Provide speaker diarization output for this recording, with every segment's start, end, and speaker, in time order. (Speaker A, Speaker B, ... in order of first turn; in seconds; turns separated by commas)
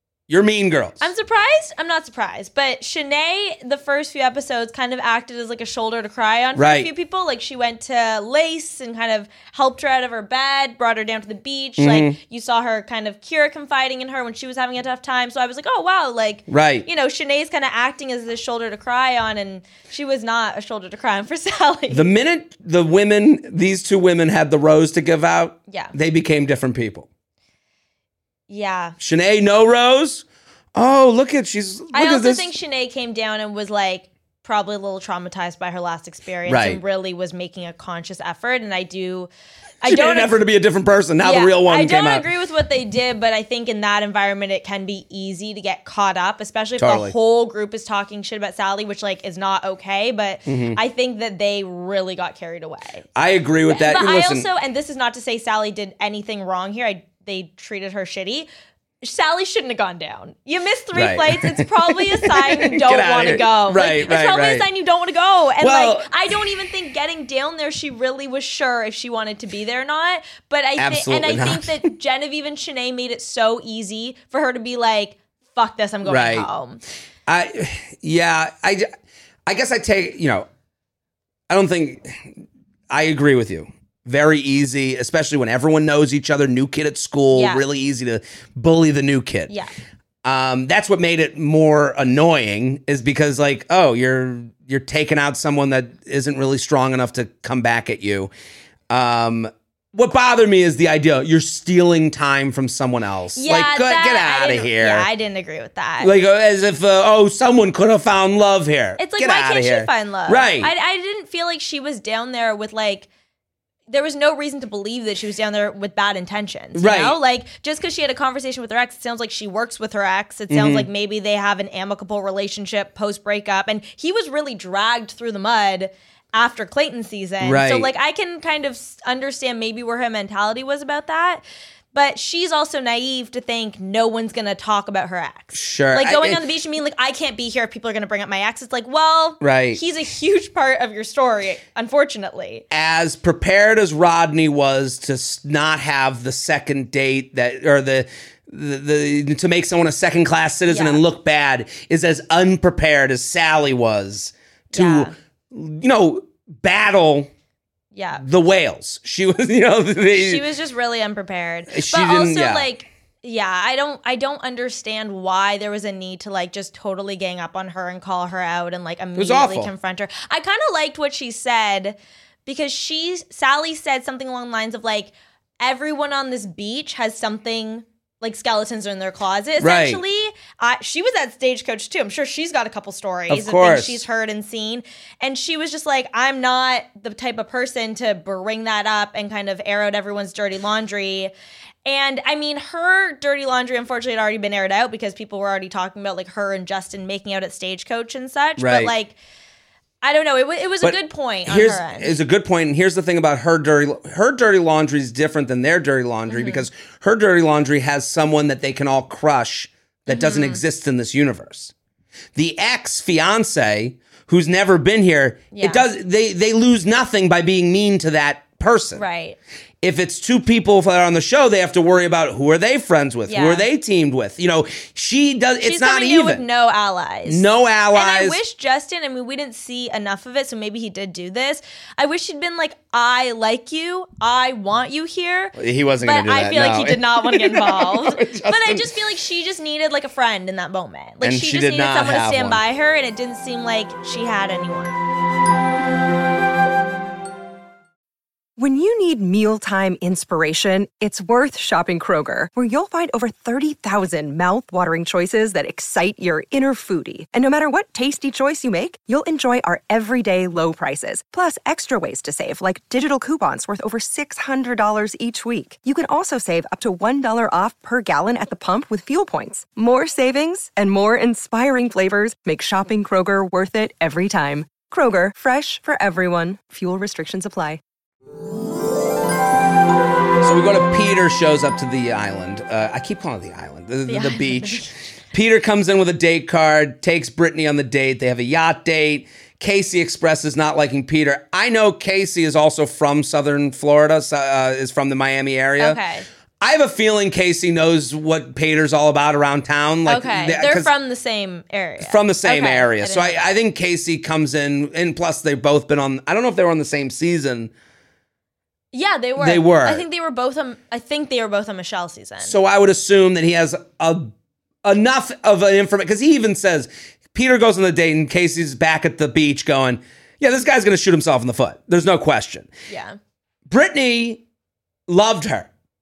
Speaker A: 0.3-1.1, Speaker B: 1.0-22.1, Speaker A: 6.6-6.9, Speaker A: 11.8-12.2, Speaker A: 16.5-16.9, Speaker A: 21.9-27.1, Speaker B: 28.5-28.9, Speaker A: 29.0-32.5, Speaker B: 31.9-39.3, Speaker A: 36.5-36.8, Speaker B: 39.8-40.4, Speaker A: 39.9-42.3, Speaker B: 41.2-53.1, Speaker A: 46.8-47.1, Speaker A: 50.5-50.8, Speaker A: 53.2-54.5, Speaker B: 53.7-58.5, Speaker B: 59.0-76.8, Speaker A: 60.9-64.7, Speaker A: 65.6-66.2, Speaker A: 70.8-71.9, Speaker A: 76.0-76.5, Speaker A: 77.3-78.9, Speaker A: 79.5-80.5, Speaker A: 81.5-89.5, Speaker B: 87.3-87.6, Speaker A: 90.2-98.3, Speaker A: 98.9-105.1, Speaker B: 103.4-106.1, Speaker A: 106.0-110.7, Speaker B: 109.0-113.1, Speaker B: 113.9-142.7, Speaker A: 116.8-117.2, Speaker A: 120.5-120.9, Speaker A: 127.4-127.9, Speaker A: 135.5-136.4, Speaker A: 139.4-139.8, Speaker A: 142.7-157.3, Speaker B: 150.7-151.0, Speaker B: 154.7-155.1, Speaker B: 157.9-158.2, Speaker A: 158.2-160.4, Speaker B: 160.1-191.3, Speaker A: 161.7-162.7, Speaker A: 169.2-169.7, Speaker A: 179.6-180.0, Speaker A: 183.3-184.0, Speaker B: 191.8-199.2, Speaker A: 198.6-198.9, Speaker B: 200.0-202.2, Speaker A: 200.8-211.7, Speaker B: 206.3-206.7, Speaker B: 210.1-210.6, Speaker A: 212.3-219.0, Speaker B: 215.5-215.8, Speaker B: 218.9-219.4, Speaker A: 219.8-226.4, Speaker B: 223.3-223.7, Speaker B: 225.6-245.0, Speaker A: 227.3-228.4, Speaker A: 235.6-238.9, Speaker A: 241.2-242.6, Speaker C: 248.6-277.8, Speaker A: 280.4-296.0, Speaker B: 284.1-284.9, Speaker B: 295.8-296.3, Speaker A: 296.6-300.9, Speaker B: 300.1-303.5, Speaker A: 302.0-307.7, Speaker B: 308.9-312.6, Speaker A: 309.4-310.1, Speaker A: 312.4-314.3, Speaker A: 314.8-322.7, Speaker B: 322.9-323.2, Speaker A: 323.7-324.4, Speaker A: 325.1-325.7